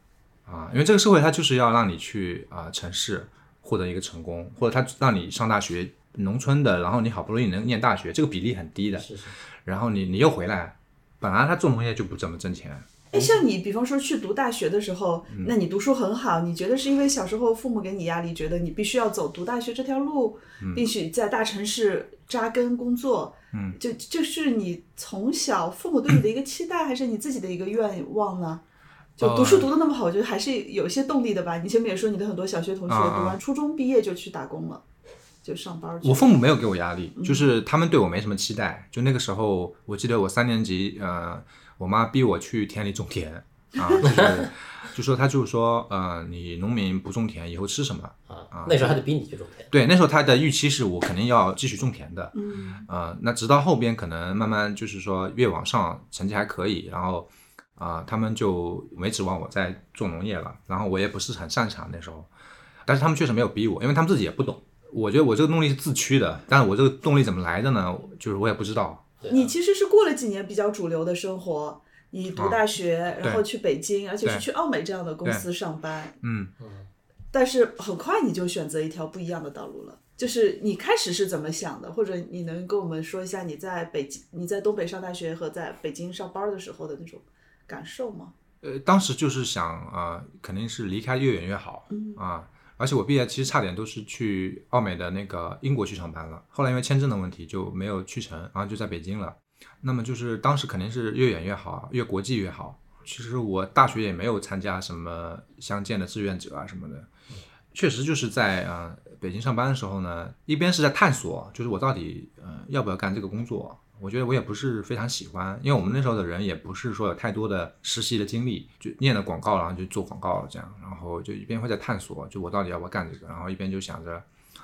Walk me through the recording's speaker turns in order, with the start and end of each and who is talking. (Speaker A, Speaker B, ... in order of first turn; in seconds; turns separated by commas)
Speaker A: 0.5-12.9, Speaker B: 9.0-9.3, Speaker C: 13.1-28.6, Speaker A: 15.3-15.6, Speaker A: 20.6-20.8, Speaker A: 23.5-23.8, Speaker C: 29.2-34.8, Speaker A: 29.2-29.7, Speaker A: 32.9-33.4, Speaker C: 35.4-36.3, Speaker A: 36.0-49.0, Speaker C: 37.1-37.5, Speaker B: 44.0-44.5, Speaker B: 48.3-49.7, Speaker A: 49.7-62.3, Speaker C: 52.3-52.9, Speaker A: 62.9-69.0, Speaker B: 69.2-69.5, Speaker C: 69.3-76.2, Speaker A: 72.3-72.6, Speaker A: 76.2-76.5, Speaker B: 76.6-76.9, Speaker C: 77.3-88.3, Speaker A: 88.6-107.1, Speaker C: 91.9-92.2, Speaker A: 107.7-124.2